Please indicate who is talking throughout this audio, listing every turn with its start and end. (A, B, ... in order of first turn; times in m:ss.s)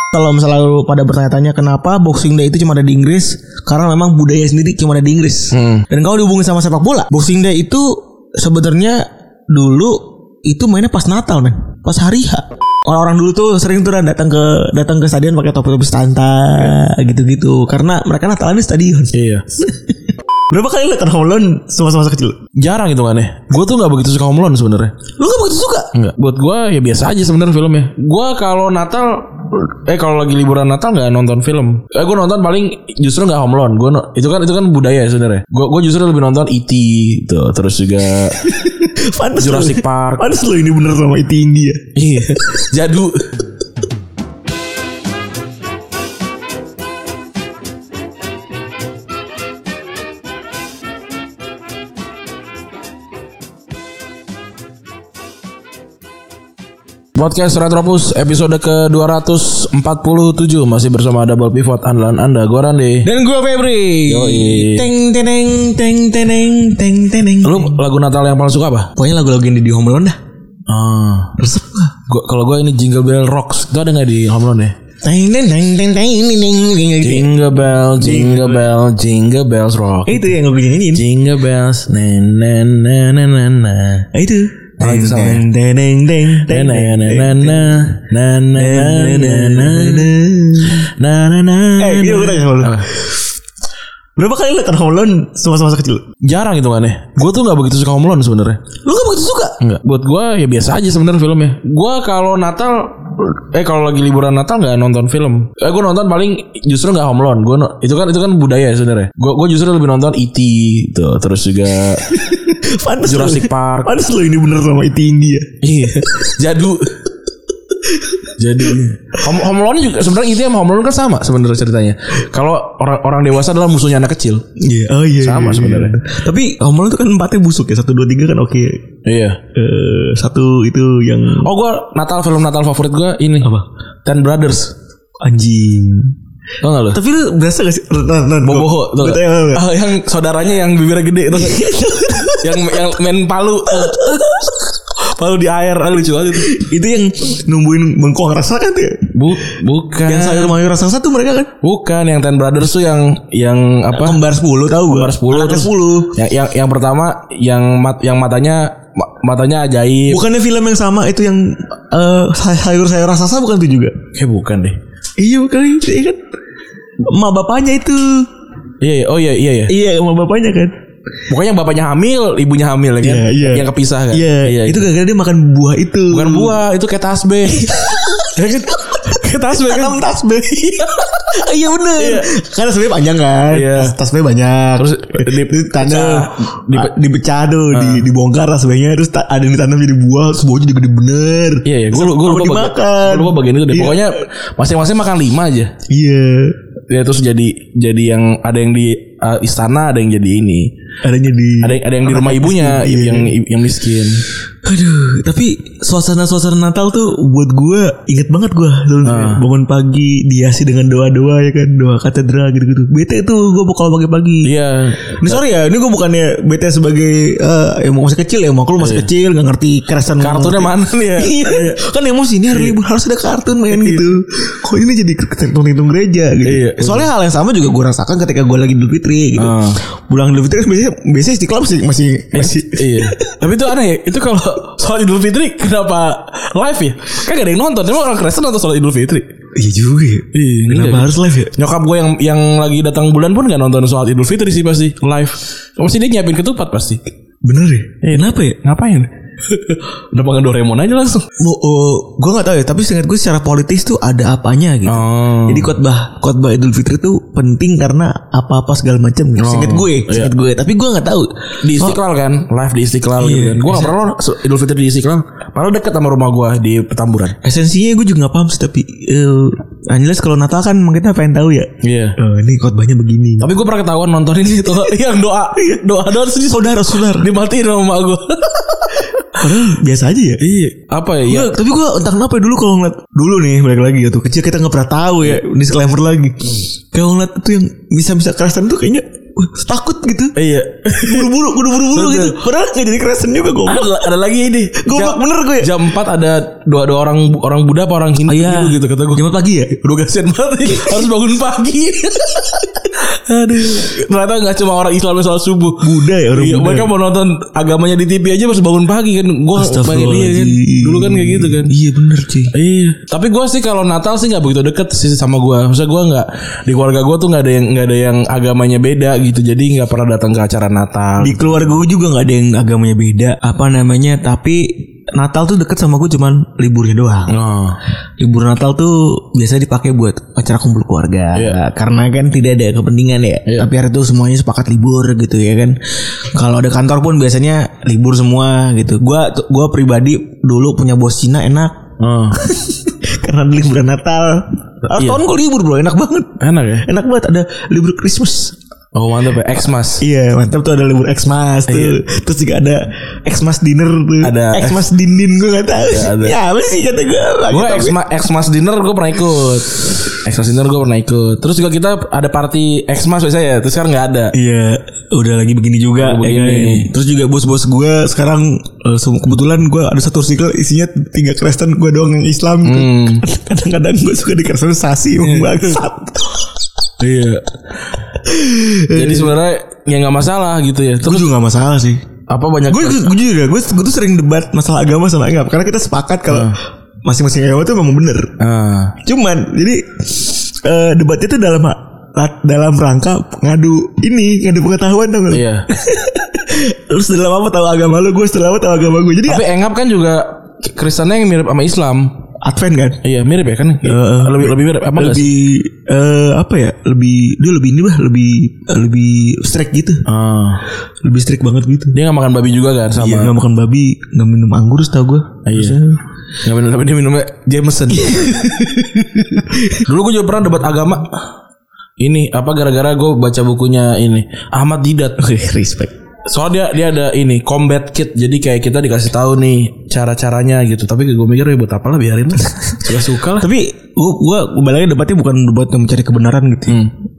0:00.1-0:20.0 A
0:05.5-0:05.8 B
0:19.1-0:19.4 B
0:20.5-0:22.4 A
0:22.6-0:24.9 B
0:25.2-0:25.9 A
0:25.9-0:38.4 B
0:38.4-0:41.9 A
0:39.4-0:40.4 B
0:42.0-0:43.5 B
0:57.2-1:03.1 B
1:03.0-1:07.8 A
1:04.1-1:04.9 B
1:07.4-1:08.9 B
1:09.0-1:10.2 A
1:10.7-1:11.4 B
1:11.4-1:12.0 A
1:12.1-1:14.8 B
1:15.0-1:17.3 A
1:17.0-1:20.4 B
1:18.0-1:18.6 A
1:20.1-1:21.0 A
1:20.9-1:24.1 B
1:24.1-1:27.8 A
1:24.8-1:25.4 B
1:26.4-1:32.9 B
1:28.6-1:30.9 A
1:31.8-1:33.2 A
1:34.2-1:36.0 A
1:36.2-1:38.6 B
1:38.8-1:39.6 A
1:39.6-1:52.2 B
1:52.0-1:56.3 A
1:53.0-1:54.0 B
1:55.6-1:57.1 B
1:57.8-1:58.8 A
1:58.4-2:04.4 B
2:04.6-2:08.9 A
2:05.2-2:06.0 B
2:09.0-2:09.4 B
2:09.5-2:11.5 A
2:11.4-2:13.5 B
2:14.0-2:14.8 B
2:15.2-2:16.2 A
2:16.6-2:17.0 B
2:16.9-2:19.7 A
2:18.4-2:21.8 B
2:21.3-2:22.9 A
2:22.3-2:26.6 B
2:23.7-2:24.5 A
2:26.3-2:31.5 A
2:29.1-2:30.6 B
2:31.6-2:34.2 B
2:33.9-2:36.2 A
2:34.8-2:40.2 B
2:40.1-2:44.0 A
2:44.1-2:44.8 B
2:45.2-2:46.2 A
2:47.0-2:48.3 A
2:48.8-2:49.7 B
2:49.7-2:50.7 A
2:51.3-2:54.9 B
2:53.0-2:56.6 A
2:56.1-3:02.3 B
2:57.5-3:14.2 A
3:03.5-3:04.0 B
3:04.8-3:06.9 B
3:07.7-3:08.1 B
3:11.6-3:15.7 B
3:15.9-3:16.6 A
3:16.9-3:20.7 B
3:21.0-3:23.3 A
3:21.6-3:24.2 B
3:24.6-3:34.5 A
3:29.0-3:29.4 B
3:34.4-3:35.4 B
3:35.0-3:53.4 A
3:38.8-3:39.1 B
3:40.2-3:41.8 B
3:42.5-3:42.8 B
3:43.7-3:44.1 B
3:46.4-3:47.1 B
3:49.4-3:49.8 B
3:52.3-3:59.3 B
3:59.6-4:01.5 A
4:00.3-4:07.0 B
4:07.4-4:08.6 A
4:08.0-4:11.3 B
4:11.4-4:22.0 A
4:14.9-4:15.7 B
4:19.4-4:20.3 B
4:21.6-4:27.4 B
4:23.2-4:23.9 A
4:27.4-4:33.5 A
4:31.8-4:32.2 B
4:33.4-4:39.5 B
4:35.6-4:35.8 A
4:36.4-4:37.3 A
4:39.3-4:40.4 A
4:40.4-4:41.5 B
4:41.3-4:50.4 A
4:50.4-4:52.4 B
4:51.0-4:54.1 A
4:53.6-4:59.2 B
4:54.8-4:55.8 A
4:58.3-4:59.8 A
4:59.8-5:11.7 B
5:05.8-5:06.9 A
5:09.6-5:12.5 A
5:12.5-5:21.6 B
5:21.2-5:27.4 A
5:27.3-5:27.8 B
5:28.2-5:41.8 A
5:42.0-5:42.4 B
5:42.3-5:48.6 A
5:44.9-5:45.2 B
5:46.4-5:46.9 B
5:48.9-5:50.0 B
5:50.0-5:58.0 A
5:51.7-5:52.0 B
5:54.2-5:54.9 B
5:55.8-5:56.4 B
5:57.5-6:04.3 B
6:04.3-6:16.5 A
6:06.0-6:06.9 B
6:12.6-6:13.2 B
6:15.2-6:15.7 B
6:17.0-6:17.6 B
6:18.1-6:19.4 A
6:18.9-6:21.3 B
6:21.0-6:22.0 A
6:22.3-6:23.2 B
6:22.7-6:28.4 A
6:26.3-6:26.6 B
6:28.4-6:29.0 B
6:29.0-6:39.4 A
6:35.3-6:35.7 B
6:39.3-6:42.2 B
6:42.4-6:43.0 A
6:43.0-6:45.3 B
6:43.8-6:50.1 A
6:50.1-6:50.6 B
6:51.0-6:52.0 A
6:51.9-6:53.4 B
6:52.9-6:56.0 A
6:55.5-6:55.8 B
6:56.4-6:58.4 B
6:57.9-6:59.8 A
6:59.8-7:01.2 B
7:02.0-7:05.2 B
7:05.2-7:05.9 A
7:06.3-7:13.5 B
7:12.5-7:16.8 A
7:16.7-7:16.9 B